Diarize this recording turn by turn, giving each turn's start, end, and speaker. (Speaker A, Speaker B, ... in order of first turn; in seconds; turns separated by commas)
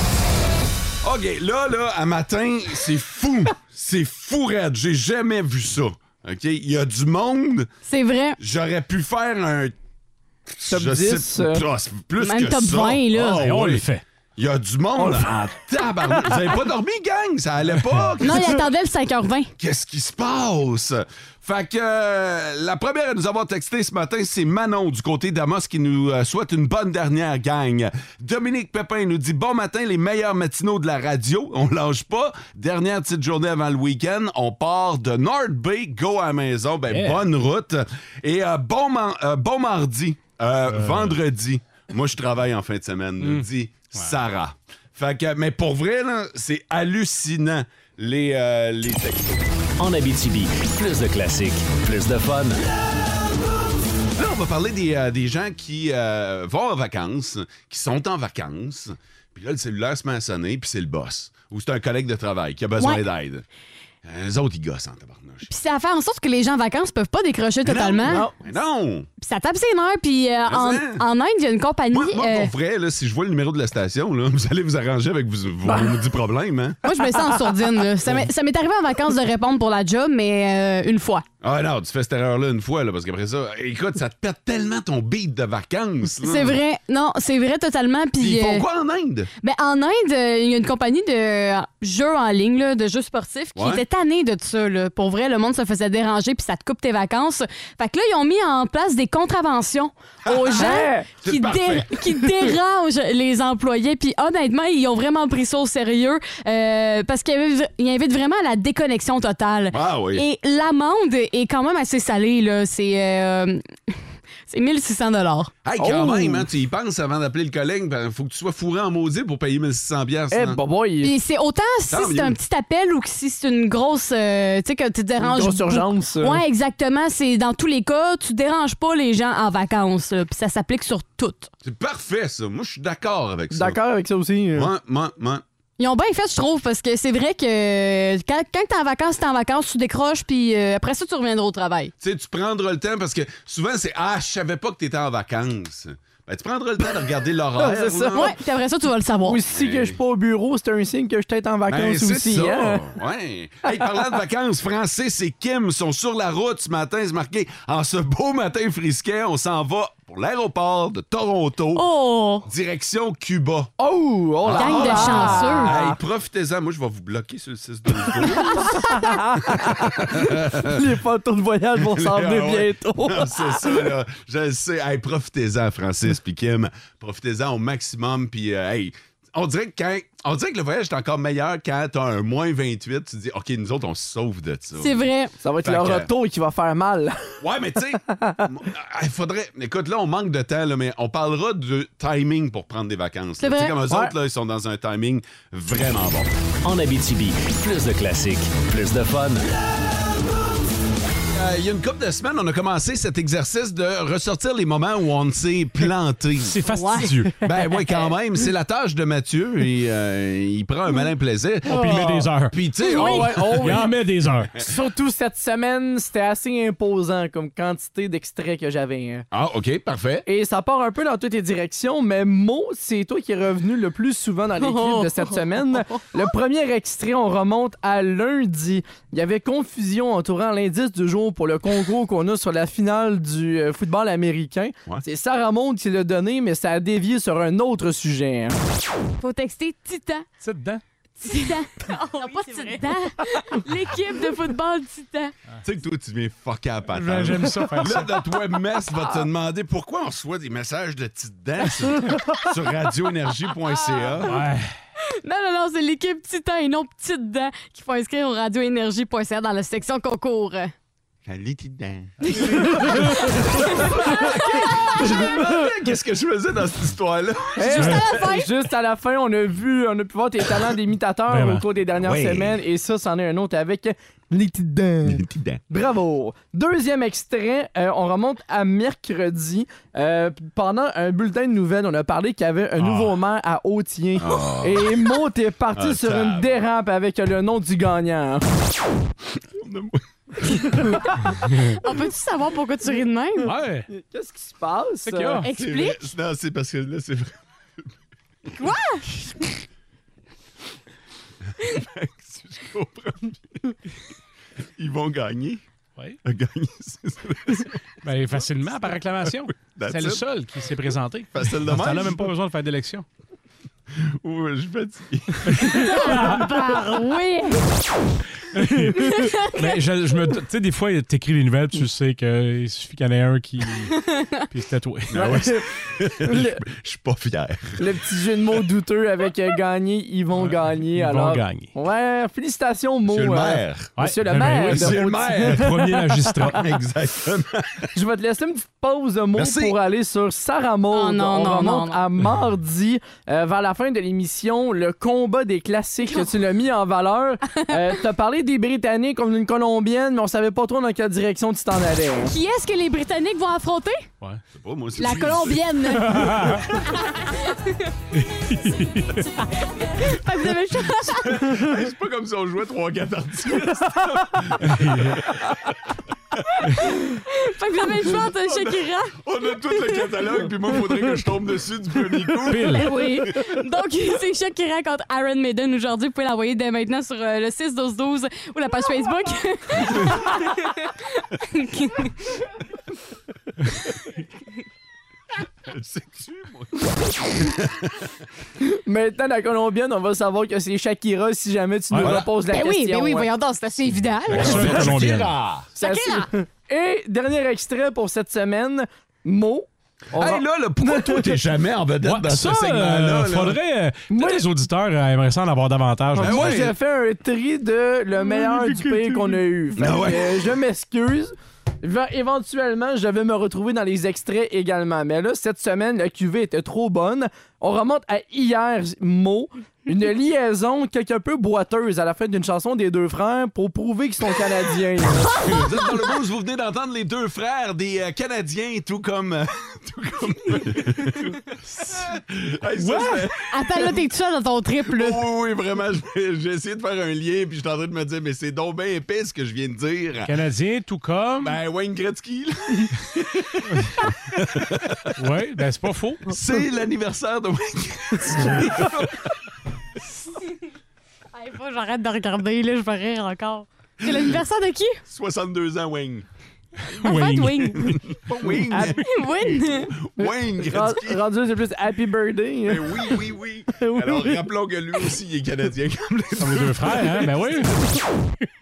Speaker A: 1.0-7.7, Speaker B: 7.9-8.4, Speaker A: 8.4-9.8, Speaker A: 10.6-13.8, Speaker C: 10.7-11.7, Speaker B: 12.2-13.4, Speaker D: 13.3-14.0, Speaker A: 14.4-18.7, Speaker C: 15.0-15.4, Speaker B: 18.2-19.5, Speaker A: 19.6-49.4, Speaker D: 36.9-37.2, Speaker D: 40.7-41.2, Speaker D: 43.2-43.5, Speaker E: 49.8-52.6, Speaker A: 54.2-63.5, Speaker A: 64.0-65.5, Speaker B: 65.5-68.3, Speaker A: 67.7-69.1, Speaker C: 68.1-68.4, Speaker B: 69.2-72.5, Speaker A: 70.5-71.0, Speaker A: 71.9-76.8, Speaker B: 76.8-81.2, Speaker A: 81.4-86.6, Speaker B: 86.2-88.7, Speaker A: 88.2-89.3, Speaker B: 89.4-113.9, Speaker A: 93.5-93.8, Speaker C: 100.5-101.1, Speaker A: 101.2-102.1, Speaker A: 109.7-110.2, Speaker B: 114.5-115.5, Speaker A: 115.6-120.6, Speaker C: 115.8-116.5, Speaker C: 120.3-121.1, Speaker B: 121.0-131.5, Speaker A: 121.9-122.4, Speaker C: 125.2-126.4, Speaker A: 131.6-133.8, Speaker C: 133.5-134.7, Speaker A: 134.5-135.4, Speaker B: 135.8-141.9, Speaker A: 142.0-148.3, Speaker C: 147.6-148.3, Speaker B: 148.1-149.4, Speaker C: 149.3-152.8, Speaker A: 149.5-150.0, Speaker A: 151.7-161.8, Speaker B: 161.8-162.5, Speaker A: 162.5-163.7, Speaker C: 163.8-166.0, Speaker A: 164.4-168.8, Speaker B: 164.5-165.7, Speaker C: 168.1-170.1, Speaker A: 169.5-170.8, Speaker C: 170.6-173.9, Speaker A: 171.8-185.0, Speaker B: 184.8-185.3, Speaker C: 185.4-187.4, Speaker A: 185.6-186.1, Speaker A: 187.4-196.3, Speaker B: 193.4-193.8, Speaker E: 196.6-199.4, Speaker A: 201.3-206.6, Speaker D: 206.4-207.4, Speaker B: 206.7-207.1, Speaker A: 207.4-213.8, Speaker D: 211.7-212.6, Speaker C: 211.7-212.2, Speaker C: 212.8-213.9, Speaker B: 212.8-213.2, Speaker D: 213.5-214.5, Speaker C: 214.6-219.2, Speaker A: 219.3-220.2, Speaker C: 220.2-238.6, Speaker B: 224.7-225.1, Speaker B: 239.2-240.2, Speaker D: 240.4-240.8, Speaker B: 241.2-245.3, Speaker A: 245.6-254.5, Speaker D: 246.9-248.1, Speaker D: 254.2-254.7, Speaker B: 255.2-260.7, Speaker A: 261.2-262.8, Speaker A: 263.5-268.1, Speaker B: 264.1-265.1, Speaker C: 265.2-265.5, Speaker C: 267.6-288.4, Speaker B: 267.7-268.5, Speaker D: 271.3-271.6, Speaker A: 271.9-272.6, Speaker A: 275.0-275.6, Speaker D: 282.8-283.1, Speaker A: 284.2-285.1, Speaker A: 285.8-286.6, Speaker A: 289.6-290.7, Speaker B: 291.8-293.5, Speaker D: 293.4-293.9, Speaker C: 293.9-295.4, Speaker D: 295.0-295.5, Speaker B: 295.4-296.1, Speaker A: 295.5-297.3, Speaker B: 298.6-299.1, Speaker A: 301.6-303.8, Speaker A: 304.8-305.6, Speaker A: 306.2-307.8, Speaker D: 308.0-313.1, Speaker A: 309.6-310.2, Speaker A: 311.4-312.3, Speaker A: 314.2-316.0, Speaker B: 315.7-317.7, Speaker D: 316.1-316.4, Speaker D: 318.5-325.3, Speaker B: 319.0-319.7, Speaker A: 325.1-327.9, Speaker C: 325.2-325.6, Speaker C: 326.2-326.6, Speaker C: 327.8-336.5, Speaker D: 330.4-331.7, Speaker A: 333.1-337.9, Speaker D: 334.0-336.6, Speaker C: 337.9-352.3, Speaker A: 339.3-339.8, Speaker B: 340.9-342.0, Speaker B: 352.2-354.1, Speaker A: 354.6-355.7, Speaker B: 355.0-357.7, Speaker D: 356.0-356.6, Speaker D: 358.1-359.3, Speaker B: 359.6-361.5, Speaker A: 361.2-365.3, Speaker D: 364.6-365.2, Speaker A: 366.5-366.8, Speaker B: 367.3-369.2, Speaker A: 368.0-373.3, Speaker B: 369.7-370.0, Speaker D: 372.5-372.9, Speaker B: 372.7-382.1, Speaker A: 385.7-387.9, Speaker C: 388.6-393.3, Speaker D: 391.9-392.2, Speaker A: 392.0-392.3, Speaker B: 392.5-394.7, Speaker A: 394.3-395.7, Speaker D: 394.3-395.3, Speaker C: 395.8-401.4, Speaker B: 395.8-396.3, Speaker A: 400.1-403.6, Speaker D: 402.0-406.6, Speaker C: 404.1-404.5, Speaker C: 406.1-425.5, Speaker A: 406.2-406.8, Speaker D: 408.3-409.3, Speaker A: 409.8-410.5, Speaker A: 425.4-434.0, Speaker D: 432.8-433.2, Speaker B: 433.5-435.2, Speaker A: 434.9-440.4, Speaker D: 440.2-441.6, Speaker A: 441.4-445.1, Speaker D: 445.2-446.3, Speaker A: 446.3-449.2, Speaker B: 451.3-455.0, Speaker A: 455.1-456.2, Speaker D: 456.9-458.0, Speaker B: 457.0-457.9, Speaker A: 457.7-459.0, Speaker C: 458.5-459.0, Speaker B: 459.0-459.9, Speaker A: 460.0-461.2, Speaker C: 460.2-464.4, Speaker A: 462.6-467.4, Speaker D: 466.4-467.8